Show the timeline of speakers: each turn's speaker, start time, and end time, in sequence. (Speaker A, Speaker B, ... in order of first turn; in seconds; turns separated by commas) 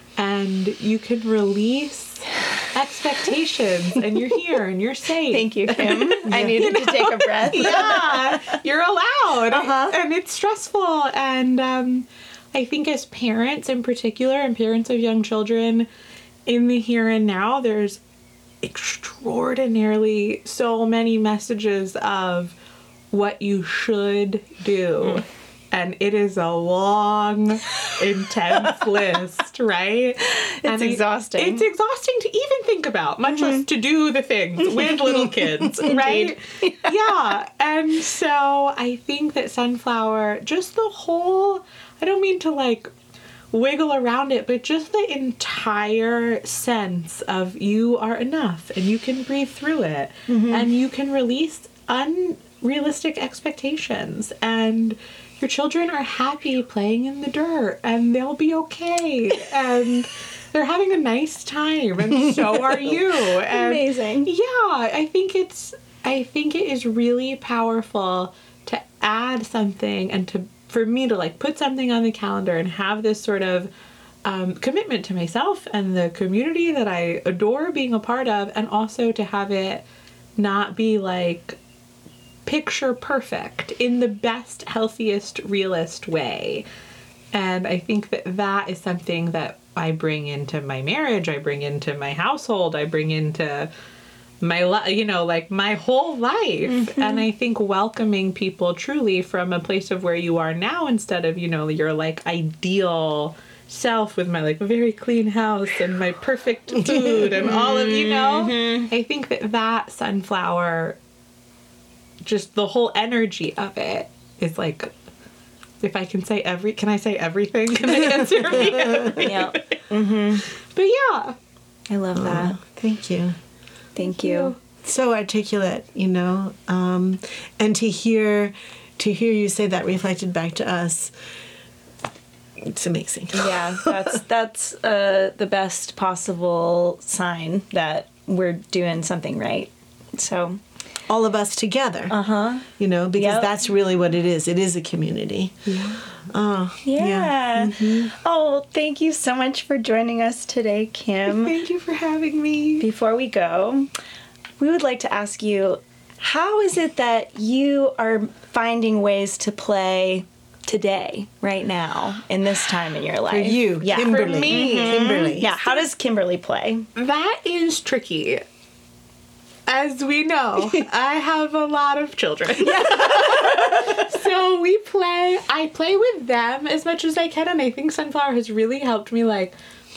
Speaker A: 0.2-15.9, Speaker B: 5.3-8.6, Speaker C: 6.3-6.6, Speaker B: 9.5-9.9, Speaker A: 16.5-18.0, Speaker A: 18.6-22.6, Speaker A: 23.1-42.9, Speaker B: 30.4-31.6, Speaker B: 33.3-33.6, Speaker B: 34.6-36.9, Speaker A: 43.5-73.7, Speaker B: 50.3-50.7, Speaker B: 63.1-64.3, Speaker A: 74.2-79.8, Speaker A: 80.4-81.6, Speaker A: 82.5-86.7, Speaker A: 87.3-93.7, Speaker A: 94.4-111.0, Speaker B: 96.7-97.3, Speaker B: 107.2-108.9, Speaker A: 112.2-114.9, Speaker A: 115.8-119.8, Speaker C: 118.7-119.1, Speaker B: 119.1-120.5, Speaker A: 120.5-121.4, Speaker B: 121.9-122.6, Speaker C: 122.2-123.4, Speaker B: 124.0-124.5, Speaker A: 124.0-124.6, Speaker C: 124.8-131.1, Speaker C: 132.6-134.0, Speaker B: 133.3-140.6, Speaker C: 141.1-142.1, Speaker B: 142.1-143.6, Speaker C: 142.8-148.1, Speaker A: 145.7-146.0, Speaker B: 146.8-151.6, Speaker A: 151.3-152.9, Speaker B: 152.8-153.9, Speaker B: 154.6-166.9, Speaker C: 163.3-165.6, Speaker A: 163.9-165.8, Speaker A: 166.9-168.4, Speaker A: 169.7-179.6, Speaker B: 172.6-174.1